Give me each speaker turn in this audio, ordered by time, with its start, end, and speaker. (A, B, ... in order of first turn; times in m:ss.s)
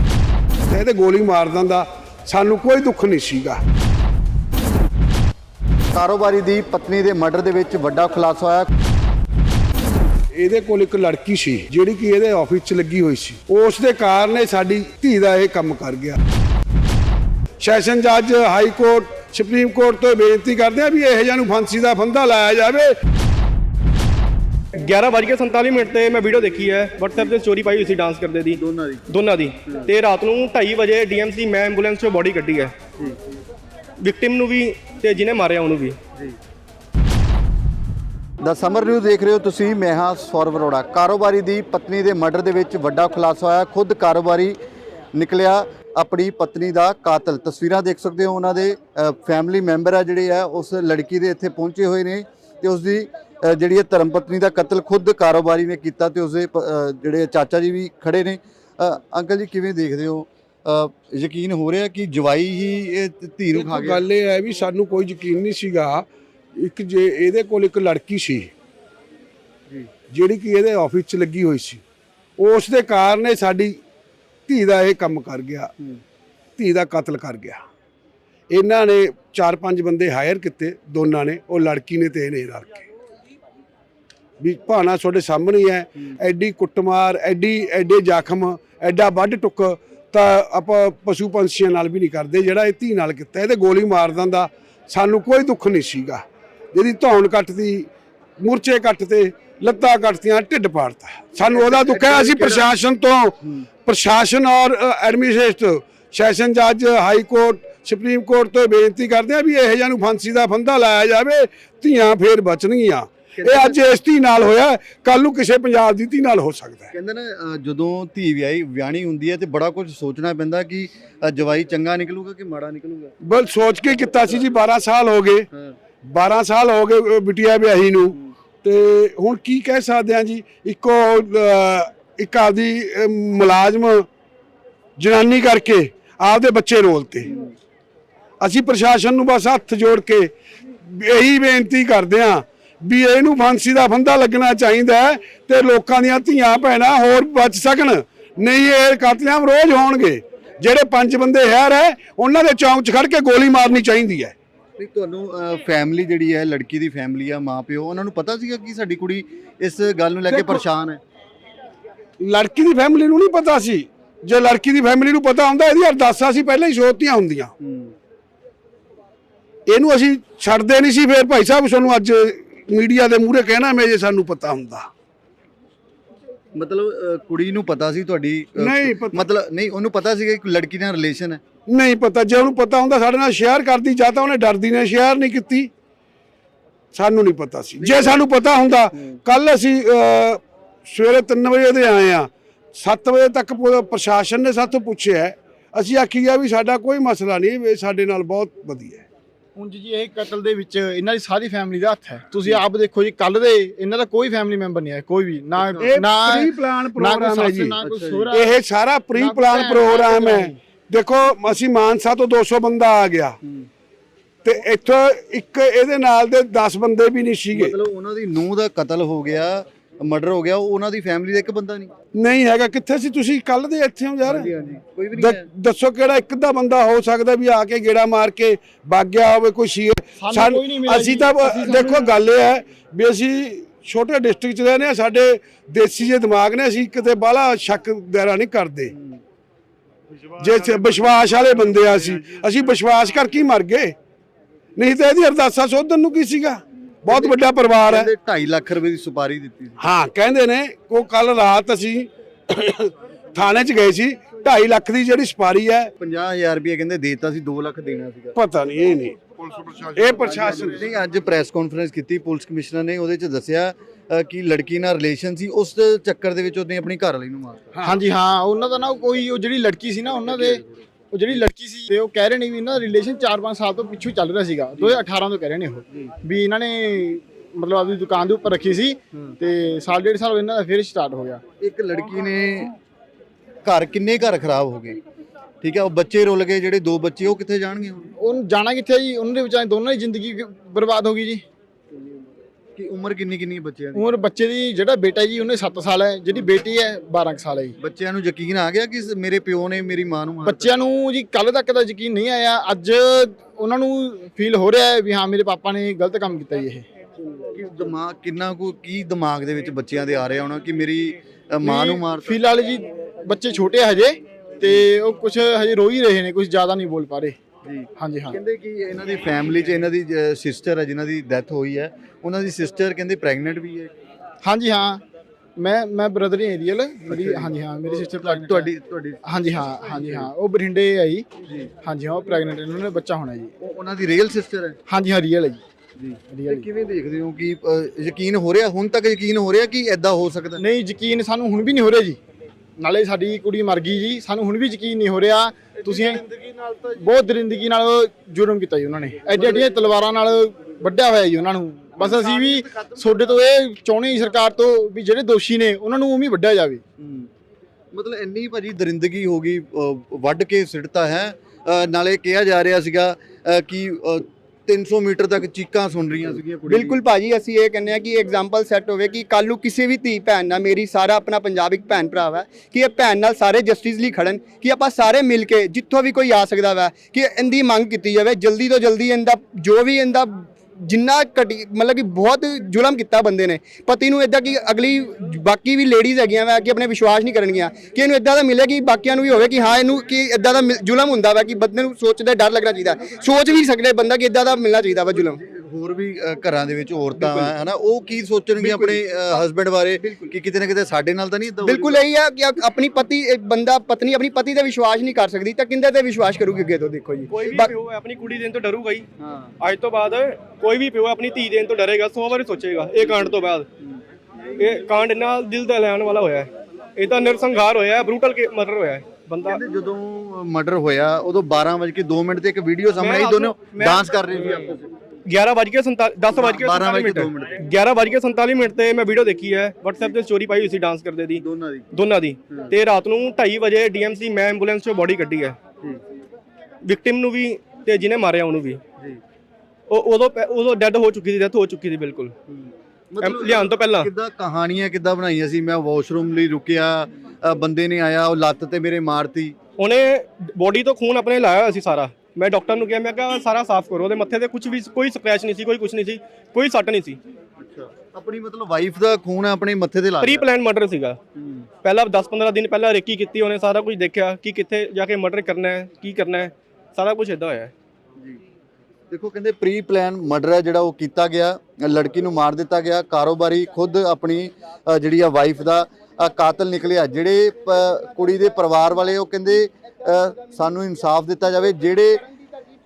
0:00.7-0:03.6 A
0:05.9-0:08.7 B
0:10.3-0:16.2 A
0:17.6-0:22.9 A
0:24.7-0:32.7 C
0:28.5-0:29.0 B
0:33.0-0:33.2 B
0:34.0-0:36.0 C
0:38.4-0:44.6 B
0:45.1-1:04.0 B
1:03.6-1:06.1 A
1:06.6-1:08.5 A
1:10.1-1:11.8 A
1:12.4-1:13.8 A
1:14.5-1:15.7 A
1:16.6-1:17.6 A
1:18.5-1:22.9 A
1:24.4-1:37.9 A
1:38.4-1:56.9 A
1:41.5-1:42.7 B
1:43.4-1:43.7 B
1:53.4-1:53.8 B
1:56.9-2:03.1 B
2:03.2-2:05.5 A
2:05.5-2:05.8 B
2:06.0-2:14.1 A
2:15.0-2:17.3 A
2:17.2-2:17.5 B
2:18.4-2:20.3 A
2:20.8-2:34.4 A
2:34.8-2:41.0 B
2:42.2-2:47.5 A
2:47.6-2:47.9 B
2:49.7-2:54.9 A
2:56.6-3:01.4 B
2:58.6-2:59.3 A
3:01.7-3:05.7 A
3:06.9-3:19.0 A
3:07.8-3:08.2 B
3:19.6-3:28.6 D
3:25.6-3:26.0 B
3:25.8-3:27.7 A
3:27.8-3:28.3 B
3:28.3-3:33.4 A
3:29.2-3:30.6 D
3:33.4-3:33.7 B
3:34.4-3:37.8 A
3:37.5-3:41.9 B
3:42.1-3:44.5 A
3:44.2-3:45.5 B
3:45.1-3:58.9 A
3:50.2-3:52.1 D
3:58.9-3:59.2 B
4:00.4-4:03.9 A
4:04.8-4:08.1 A
4:07.1-4:07.4 B
4:07.9-4:09.8 B
4:09.8-4:15.9 A
4:16.0-4:18.4 B
4:18.4-4:19.2 A
4:19.9-4:20.8 A
4:20.2-4:27.8 B
4:27.8-4:41.4 D
4:30.4-4:30.6 B
4:41.6-4:42.8 B
4:43.6-4:45.0 B
4:45.6-4:48.1 B
4:48.2-4:51.4 D
4:52.8-4:54.1 B
4:54.0-4:57.8 D
4:57.8-5:00.7 B
5:00.4-5:06.8 D
5:07.5-5:12.4 B
5:11.6-5:17.4 D
5:17.6-5:23.9 B
5:18.0-5:18.4 D
5:24.4-5:25.0 D
5:25.6-5:28.7 D
5:27.1-5:30.3 B
5:29.2-5:31.3 D
5:31.8-5:33.5 D
5:33.6-5:34.8 B
5:34.9-5:35.6 D
5:36.0-5:40.6 B
5:36.3-5:36.7 D
5:40.6-5:42.2 D
5:42.8-5:46.2 D
5:46.4-5:46.8 B
5:47.0-5:56.8 D
5:49.4-5:49.6 B
5:52.0-5:53.1 B
5:57.0-5:57.3 B
5:57.9-6:07.0 B
6:06.7-6:35.4 E
6:35.4-6:42.0 B
6:37.2-6:37.6 E
6:41.6-6:47.6 E
6:47.3-6:49.1 C
6:47.5-6:47.7 B
6:49.2-6:49.6 B
6:49.6-6:53.7 C
6:53.8-6:54.6 B
6:54.6-6:59.6 C
6:59.4-7:04.9 B
7:03.0-7:04.8 C
7:05.3-7:15.6 C
7:06.3-7:07.6 B
7:11.4-7:11.9 B
7:16.8-7:18.8 C
7:19.9-7:22.3 C
7:22.5-7:29.6 B
7:23.2-7:24.1 C
7:29.8-7:37.2 C
7:37.6-7:40.4 B
7:40.2-7:41.2 C
7:41.4-7:41.7 B
7:41.8-7:47.7 C
7:49.1-8:02.2 B